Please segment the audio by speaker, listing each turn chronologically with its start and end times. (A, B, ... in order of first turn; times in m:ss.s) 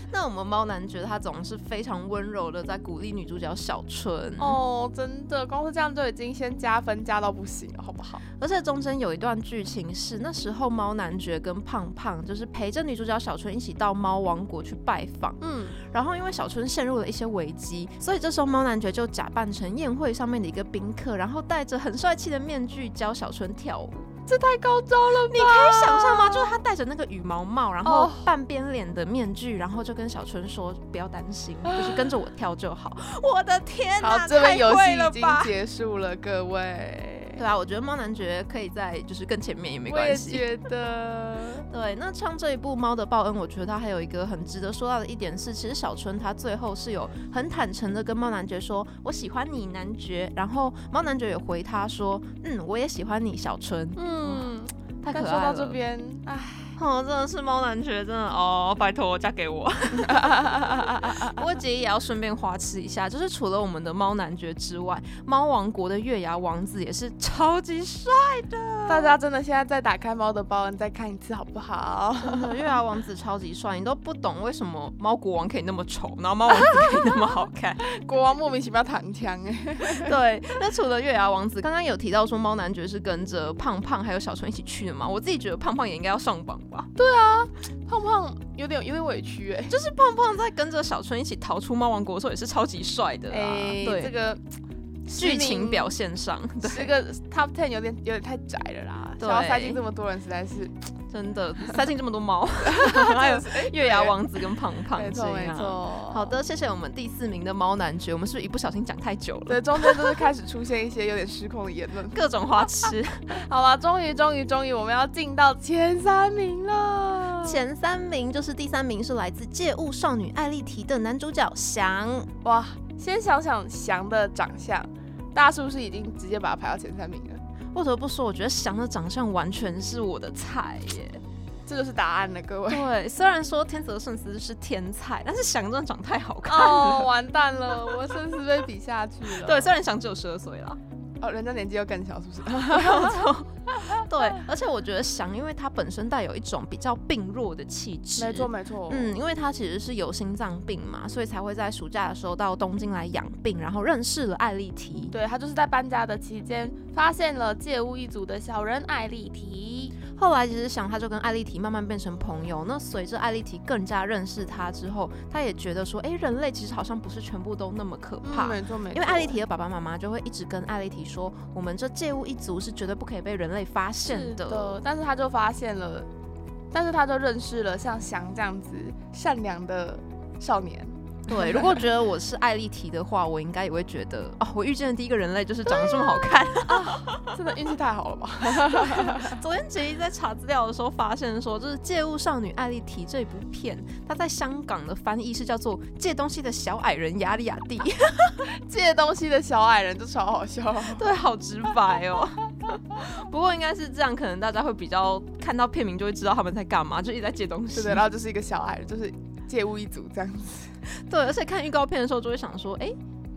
0:00.1-0:04.6 A
0:04.4-0:08.2 B
0:08.4-0:24.1 A
0:15.4-0:15.8 B
0:24.3-0:26.6 B
0:25.3-0:35.5 A
0:27.8-0:28.3 B
0:31.7-0:32.1 B
0:34.0-0:37.4 B
0:37.4-0:40.4 A
0:39.9-0:41.7 B
0:41.7-0:54.5 A
0:54.0-0:56.8 B
0:55.0-0:55.8 A
0:56.8-1:00.5 A
1:00.0-1:01.4 B
1:01.0-1:09.2 A
1:08.9-1:12.6 B
1:12.2-1:17.8 A
1:17.9-1:20.1 B
1:19.8-1:26.9 A
1:27.0-1:29.8 B
1:29.7-1:34.1 A
1:33.3-1:34.4 B
1:35.1-1:35.9 B
1:35.1-1:36.9 A
1:36.6-1:40.8 B
1:39.2-1:39.8 A
1:41.1-1:50.2 A
1:42.6-1:44.2 B
1:44.9-1:46.4 B
1:49.5-1:52.2 B
1:52.1-1:53.2 A
1:53.3-1:57.6 B
1:57.4-2:02.3 A
2:02.4-2:07.4 B
2:07.7-2:11.2 A
2:11.7-2:12.9 B
2:12.7-2:17.1 A
2:16.5-2:19.8 B
2:19.3-2:20.8 A
2:21.2-2:24.0 B
2:22.7-2:35.1 A
2:28.2-2:29.2 B
2:35.1-2:40.0 B
2:40.1-2:54.8 A
2:48.2-2:49.4 B
2:54.0-2:56.1 B
2:56.7-3:01.8 B
3:01.3-3:07.5 A
3:05.7-3:09.4 B
3:08.5-3:18.4 A
3:18.5-3:21.1 B
3:21.0-3:28.0 A
3:27.7-3:30.8 B
3:31.0-3:33.0 A